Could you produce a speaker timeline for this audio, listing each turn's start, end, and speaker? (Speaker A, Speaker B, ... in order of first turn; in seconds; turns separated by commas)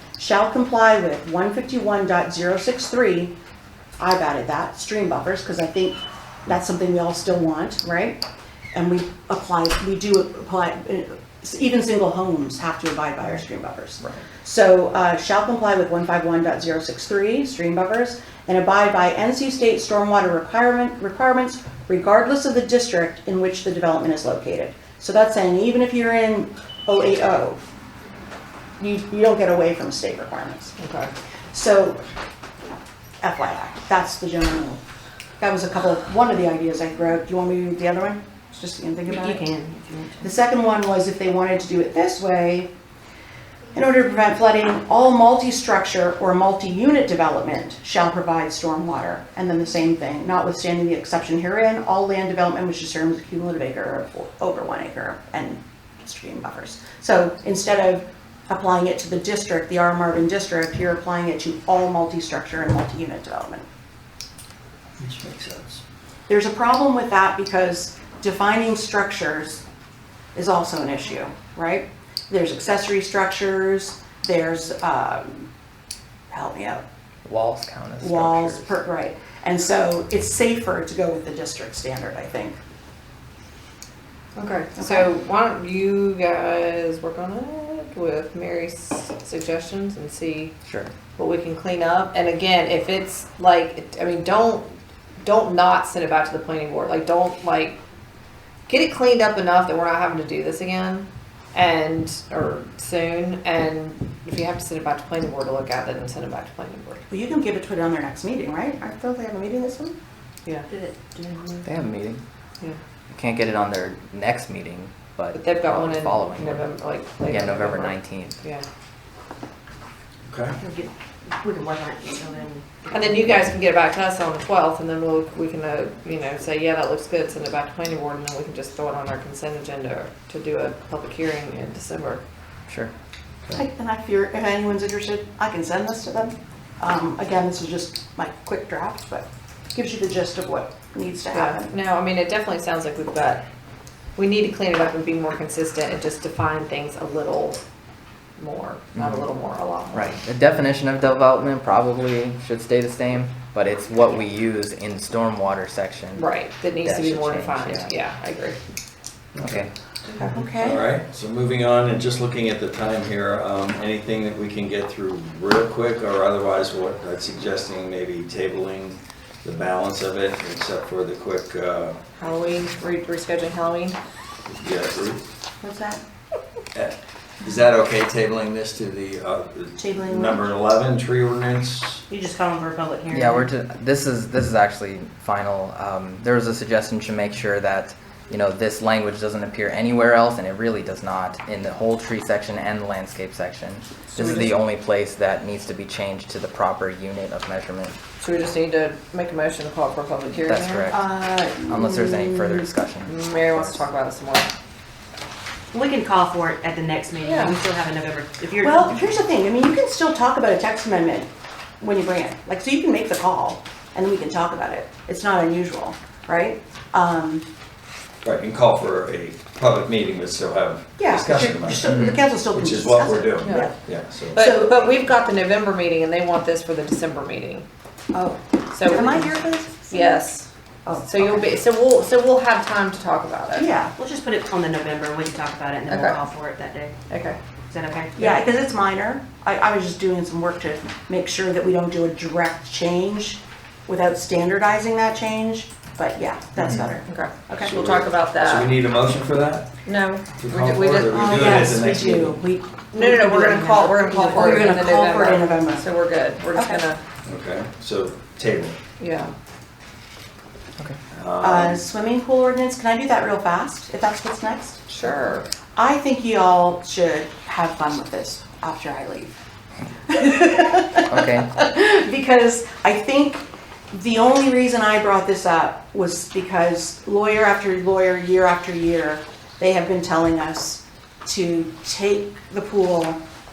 Speaker A: 0.2-3.4, Speaker A: 4.0-27.6, Speaker A: 28.8-30.7, Speaker B: 30.8-31.1, Speaker A: 31.5-32.0, Speaker A: 33.2-34.8, Speaker A: 35.4-39.5, Speaker C: 39.1-40.2, Speaker A: 40.2-42.7, Speaker A: 43.7-63.7, Speaker D: 65.0-65.8, Speaker A: 66.3-69.6, Speaker A: 70.3-75.5, Speaker A: 76.3-76.8, Speaker E: 77.2-78.8, Speaker A: 78.0-82.6, Speaker B: 84.3-90.5, Speaker A: 84.8-85.1, Speaker E: 90.7-90.9, Speaker B: 91.2-97.8, Speaker B: 98.7-107.0, Speaker A: 107.1-110.0, Speaker C: 110.5-111.7, Speaker E: 111.6-112.2, Speaker E: 113.1-116.7, Speaker B: 115.3-118.7, Speaker E: 117.2-118.4, Speaker D: 120.3-120.6, Speaker C: 120.6-123.4, Speaker B: 122.9-132.2, Speaker A: 133.5-141.8, Speaker B: 141.3-143.4, Speaker B: 144.2-147.6, Speaker B: 148.4-150.2, Speaker E: 149.9-156.2, Speaker B: 156.2-158.6, Speaker E: 156.8-157.9, Speaker D: 159.3-159.7, Speaker E: 159.4-159.7, Speaker A: 160.2-160.8, Speaker D: 160.5-172.0, Speaker B: 172.2-174.0, Speaker D: 174.5-175.2, Speaker A: 175.6-176.0, Speaker D: 176.7-182.0, Speaker A: 179.8-180.5, Speaker C: 182.1-183.2, Speaker A: 182.5-183.4, Speaker E: 183.1-198.0, Speaker B: 194.2-194.5, Speaker B: 198.2-200.9, Speaker E: 200.4-203.8, Speaker A: 200.9-202.7, Speaker B: 203.1-204.5, Speaker C: 205.7-209.0, Speaker B: 207.2-207.6, Speaker A: 208.6-217.5, Speaker D: 218.2-224.6, Speaker A: 221.0-223.8, Speaker E: 221.8-222.2, Speaker B: 223.4-223.7, Speaker A: 224.3-225.0, Speaker B: 224.3-227.7, Speaker A: 228.1-230.2, Speaker B: 228.7-229.3, Speaker B: 229.9-230.5, Speaker A: 230.9-231.5, Speaker B: 231.0-233.7, Speaker A: 233.5-233.9, Speaker C: 233.9-236.9, Speaker B: 235.9-236.2, Speaker B: 237.1-237.4, Speaker C: 237.7-238.5, Speaker A: 238.2-247.8, Speaker E: 246.6-246.9, Speaker B: 247.1-248.8, Speaker D: 247.7-249.7, Speaker B: 249.8-251.8, Speaker D: 250.4-252.4, Speaker A: 251.1-255.8, Speaker B: 252.9-257.0, Speaker C: 254.0-254.7, Speaker A: 256.6-256.8, Speaker D: 257.2-258.8, Speaker B: 259.0-259.3, Speaker D: 261.1-261.8, Speaker A: 261.4-264.9, Speaker B: 264.9-265.4, Speaker A: 265.8-269.3, Speaker A: 270.1-283.2, Speaker E: 271.1-271.5